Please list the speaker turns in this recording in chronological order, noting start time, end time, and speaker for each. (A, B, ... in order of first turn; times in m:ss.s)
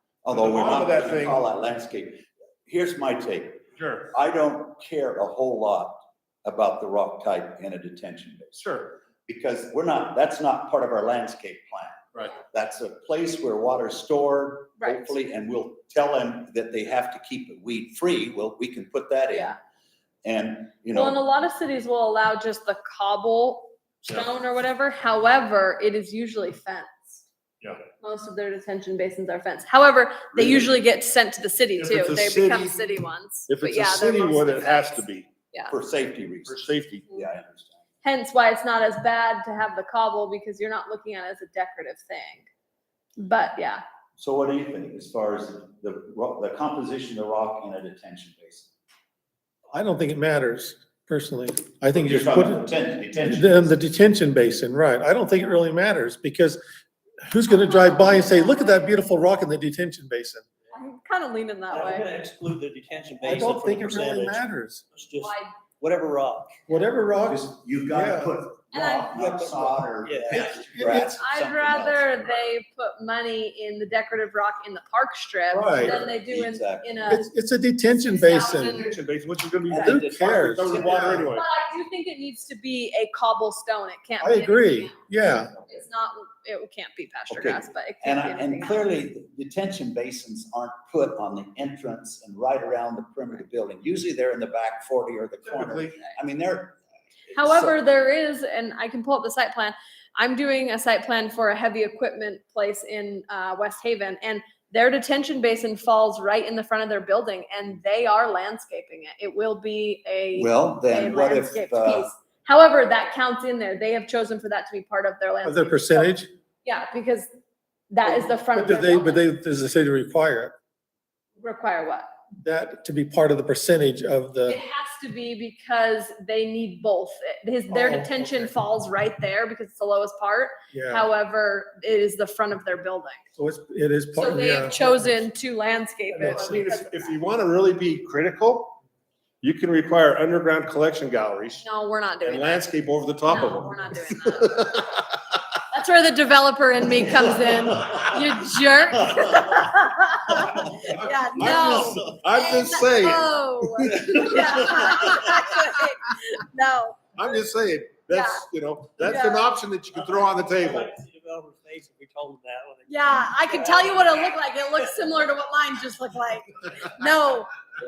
0:00.2-0:19.6 A
0:00.3-0:01.4 B
0:03.8-0:04.1 B
0:08.6-0:09.0 B
0:14.8-0:15.1 C
0:20.2-0:21.2 A
0:20.9-0:27.2 C
0:28.0-0:35.7 C
0:30.3-0:30.7 A
0:31.8-0:32.8 B
0:33.5-0:35.3 B
0:35.7-0:37.8 A
0:36.4-0:37.1 B
0:38.0-0:42.5 C
0:43.2-0:43.8 C
0:44.2-0:48.7 A
0:49.7-0:56.6 D
0:51.9-0:53.8 A
0:57.2-1:00.5 D
0:57.5-0:58.8 C
1:00.7-1:02.1 C
1:01.7-1:06.6 E
1:03.2-1:04.8 D
1:05.2-1:05.5 C
1:06.7-1:08.2 D
1:07.2-1:12.2 A
1:08.7-1:09.3 C
1:09.2-1:10.8 E
1:10.3-1:11.2 D
1:10.9-1:18.9 C
1:15.5-1:15.9 D
1:15.8-1:17.0 A
1:17.1-1:18.8 D
1:18.7-1:21.4 B
1:19.7-1:21.0 A
1:19.8-1:21.2 D
1:21.3-1:24.9 C
1:24.2-1:25.5 D
1:25.4-1:25.8 A
1:25.7-1:28.8 C
1:27.3-1:36.8 A
1:35.4-1:35.9 B
1:37.3-1:37.8 A
1:37.3-1:57.3 C
1:50.4-1:52.1 A
1:55.4-1:56.3 D
1:57.9-1:59.3 C
1:58.0-2:00.5 D
2:01.4-2:02.0 C
2:02.4-2:04.6 D
2:04.4-2:13.2 C
2:07.7-2:08.0 D
2:10.7-2:11.1 D
2:13.4-2:15.2 D
2:14.1-2:17.1 C
2:16.1-2:18.8 B
2:16.2-2:16.5 D
2:19.4-2:21.6 B
2:21.6-2:22.6 C
2:22.2-2:23.7 B
2:23.3-2:24.7 C
2:24.5-2:25.0 B
2:25.7-2:37.1 C
2:30.3-2:35.5 B
2:31.7-2:32.0 E
2:34.1-2:34.8 E
2:37.2-2:40.9 B
2:38.1-2:38.4 C
2:39.0-2:39.5 C
2:39.9-2:44.4 E
2:42.9-2:47.6 C